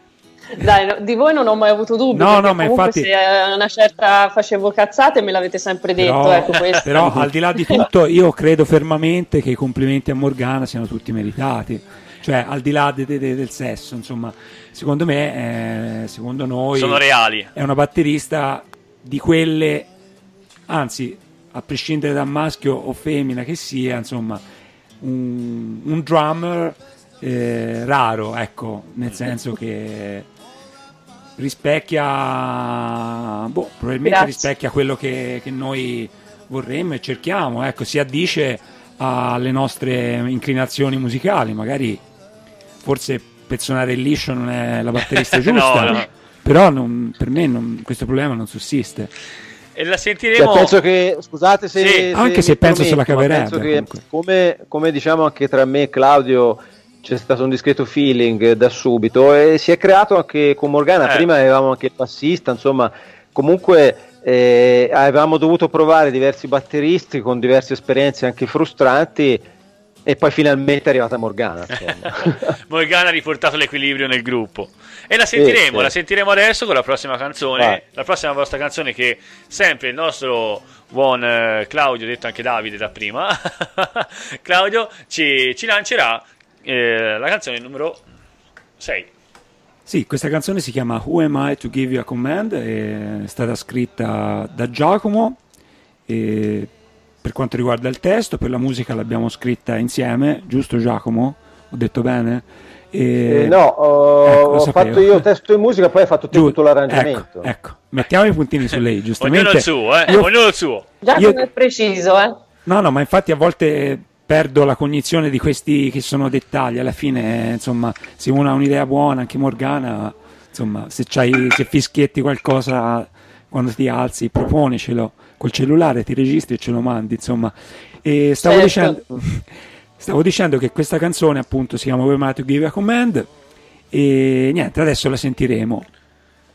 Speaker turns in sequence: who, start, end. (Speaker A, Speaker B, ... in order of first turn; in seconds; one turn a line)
Speaker A: 0.5-7.8
Speaker B: 2.1-3.1
Speaker B: 6.0-19.9
Speaker C: 16.7-17.5
Speaker B: 20.7-24.4
Speaker B: 25.0-30.3
Speaker B: 31.4-42.0
Speaker A: 34.0-34.5
Speaker B: 42.8-49.1
Speaker C: 45.1-46.1
Speaker C: 49.8-50.8
Speaker D: 50.4-69.4
Speaker C: 51.8-52.1
Speaker B: 52.1-54.0
Speaker D: 70.0-72.5
Speaker C: 71.7-88.0
Speaker D: 75.3-75.9
Speaker C: 88.8-89.1
Speaker B: 89.8-95.4
Speaker B: 96.1-96.7
Speaker B: 97.2-103.6
Speaker D: 103.2-107.5
Speaker B: 104.2-105.2
Speaker B: 106.3-110.3
Speaker C: 109.2-110.8
Speaker A: 111.0-112.4
Speaker B: 111.1-111.4
Speaker B: 112.7-133.3
Speaker A: 128.4-129.1
Speaker B: 133.9-135.9